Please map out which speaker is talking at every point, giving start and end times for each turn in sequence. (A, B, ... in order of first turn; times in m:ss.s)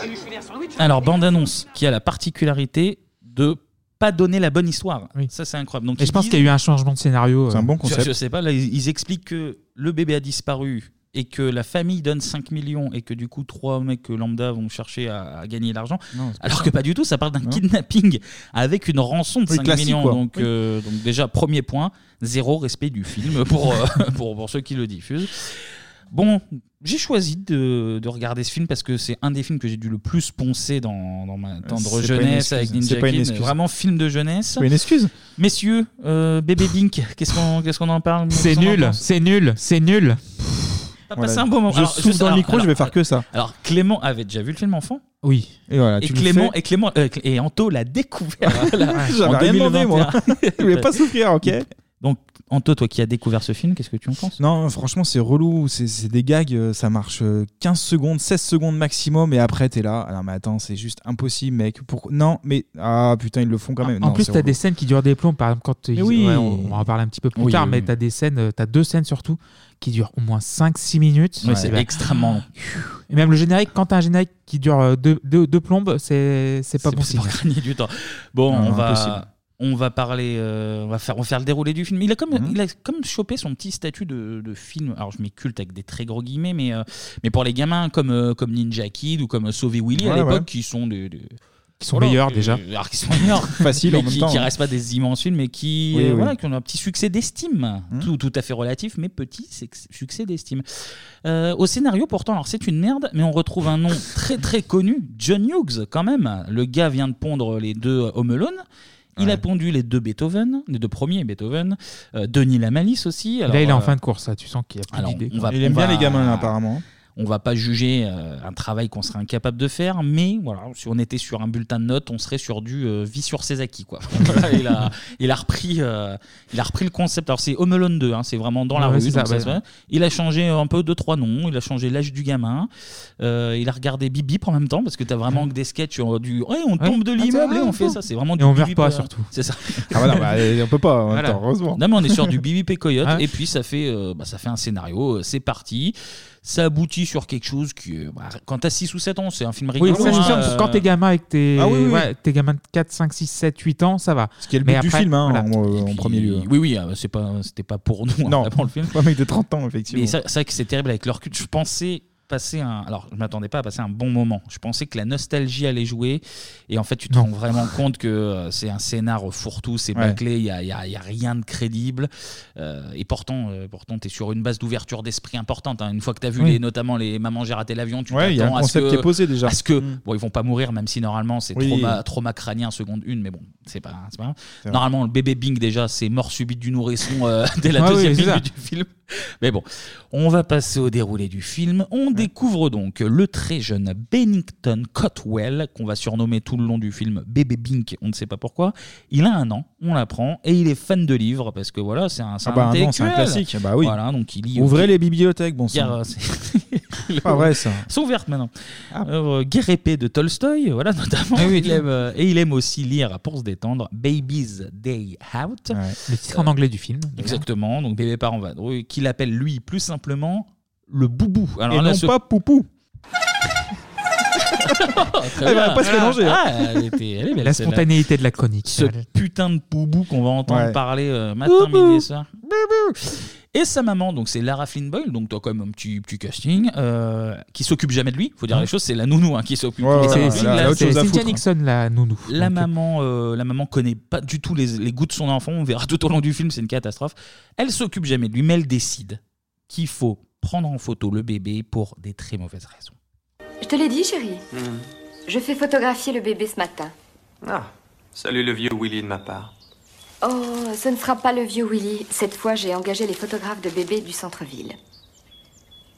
0:00.8-0:06.5 A
0:06.0-0:07.7 B
0:07.5-0:08.1 C
0:07.8-0:34.7 A
0:16.1-0:16.7 C
0:19.5-0:20.5 C
0:31.6-0:33.6 C
0:34.6-0:35.1 C
0:35.4-0:39.0 A
0:38.3-0:40.2 B
0:41.1-0:45.0 A
0:41.2-0:43.2 C
0:45.2-0:45.5 B
0:45.7-0:46.5 C
0:46.0-0:51.0 A
0:48.5-0:51.7 C
0:51.5-0:54.4 A
0:54.4-1:04.6 C
1:03.8-1:17.4 B
1:06.0-1:06.9 C
1:07.4-1:07.7 C
1:07.4-1:07.8 A
1:11.4-1:12.5 A
1:11.4-1:11.8 C
1:16.8-1:31.4 A
1:18.5-1:19.2 C
1:30.0-1:30.5 C
1:31.8-1:32.6 B
1:31.9-1:40.6 A
1:33.5-1:34.5 C
1:35.9-1:36.3 C
1:41.2-1:48.6 A
1:49.2-1:49.4 C
1:49.2-1:53.9 A
1:53.5-1:55.6 B
1:54.9-1:56.5 A
1:55.5-1:56.8 C
1:57.2-2:20.0 A
2:08.8-2:09.6 B
2:16.8-2:19.3 B
2:19.9-2:21.8 C
2:21.1-2:21.4 B
2:21.8-2:30.9 A
2:29.8-2:35.5 B
2:29.8-2:30.5 C
2:31.6-2:32.1 C
2:34.4-2:36.5 C
2:35.7-2:38.9 A
2:38.3-2:40.2 C
2:39.9-3:08.9 A
2:58.1-3:00.0 C
3:01.6-3:02.0 C
3:07.8-3:08.4 B
3:09.4-3:24.9 A
3:22.4-3:24.0 C
3:24.5-3:26.0 C
3:25.7-3:28.5 A
3:27.2-3:27.9 C
3:29.0-3:36.5 A
3:31.4-3:31.8 B
3:35.7-3:36.0 C
3:36.1-3:37.4 B
3:37.2-3:42.2 A
3:41.7-3:42.7 C
3:44.6-3:47.9 A
3:45.4-3:46.4 C
3:47.4-3:49.0 B
3:48.6-4:01.2 A
3:50.5-3:50.8 C
3:51.5-3:51.9 C
3:59.8-4:01.4 C
4:00.0-4:02.7 B
4:02.3-4:13.0 A
4:13.6-4:14.4 D
4:14.5-4:14.8 E
4:15.3-4:16.9 D
4:17.4-4:19.5 E
4:20.2-4:24.8 D